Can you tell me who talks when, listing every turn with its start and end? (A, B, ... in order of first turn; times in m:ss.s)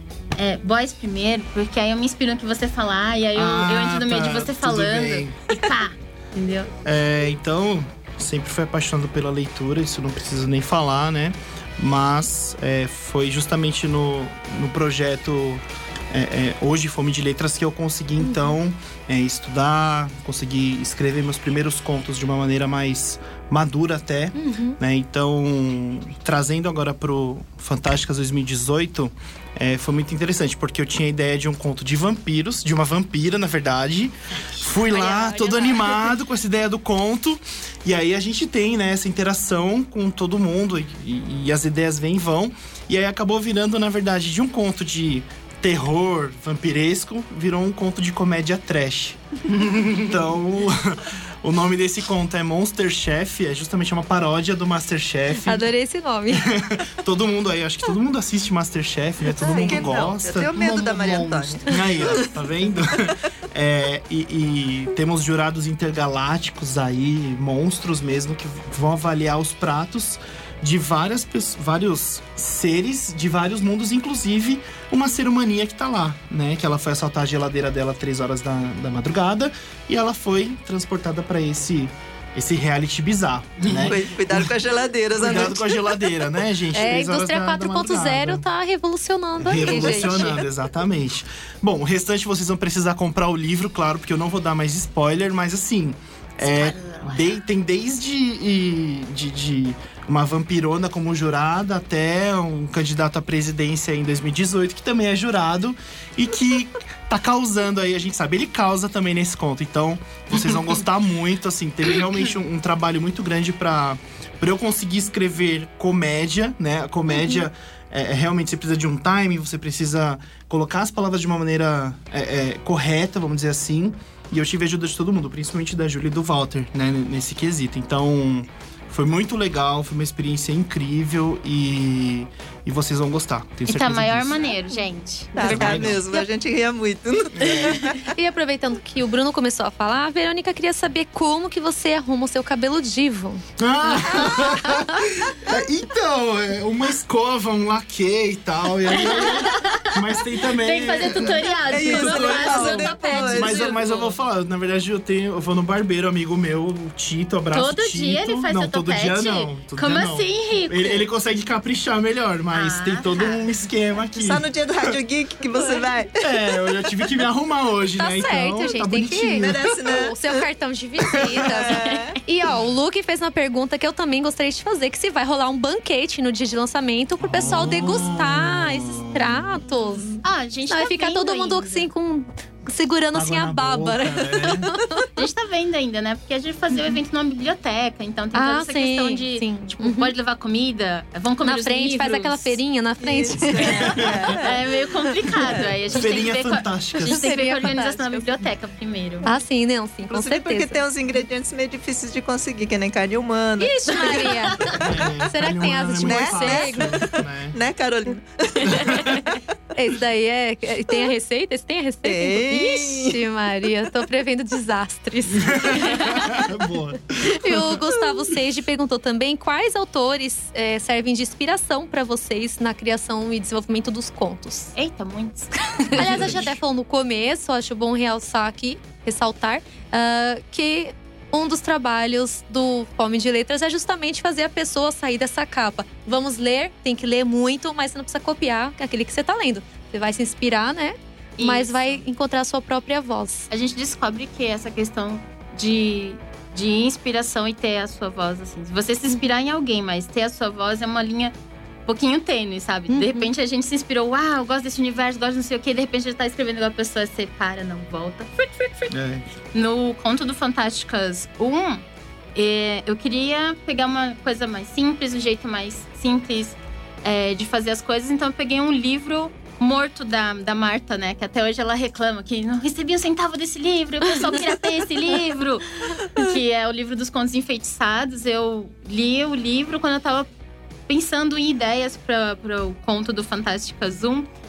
0:00.4-0:06.7 A
0:03.3-0:05.4 B
0:06.8-0:55.7 B
0:18.2-0:18.5 C
0:24.4-0:24.8 C
0:34.9-0:36.1 C
0:55.5-0:56.5 C
0:56.3-1:24.5 B
0:59.4-0:59.9 C
0:59.4-1:02.3 D
1:23.7-1:25.9 D
1:25.2-1:28.4 B
1:26.7-1:30.4 C
1:29.4-2:14.5 B
1:29.8-1:30.2 A
1:36.4-1:37.3 A
1:57.1-1:57.4 C
2:13.6-2:15.7 A
2:15.4-2:18.0 D
2:15.4-2:16.0 B
2:17.3-2:17.9 B
2:17.8-2:23.4 C
2:23.6-2:44.9 B
2:24.0-2:25.0 C
2:29.0-2:30.0 A
2:30.5-2:34.1 A
2:31.7-2:34.0 D
2:37.5-2:41.1 A
2:42.5-2:43.6 A
2:44.2-2:46.2 D
2:46.2-2:49.8 B
2:48.0-3:05.1 C
2:49.4-2:50.1 D
2:51.1-2:51.6 B
2:51.4-2:52.2 D
2:57.2-2:59.6 B
3:00.2-3:01.9 A
3:03.1-3:04.7 B
3:05.1-3:12.6 A
3:08.3-3:10.1 C
3:11.4-3:14.0 C
3:13.0-3:14.6 D
3:13.6-3:19.3 A
3:13.6-3:14.2 B
3:15.4-3:15.7 D
3:15.9-3:17.4 B
3:17.0-3:18.4 C
3:19.2-3:20.8 C
3:20.1-3:24.4 D
3:23.6-3:26.9 C
3:24.2-3:24.8 A
3:24.7-3:27.5 B
3:26.0-3:29.4 D
3:28.7-3:29.0 B
3:29.7-3:36.5 C
3:32.0-3:33.2 D
3:35.4-3:37.7 B
3:37.2-3:44.7 C
3:44.7-3:46.5 A
3:45.9-4:03.5 C
3:46.0-3:46.5 B
4:01.4-4:02.0 A
4:03.5-4:11.3 A
4:11.8-4:19.0 A
4:12.9-4:13.3 C
4:18.9-4:19.2 B
4:19.5-4:21.8 A
4:22.3-4:40.3 A
4:40.9-4:44.3 A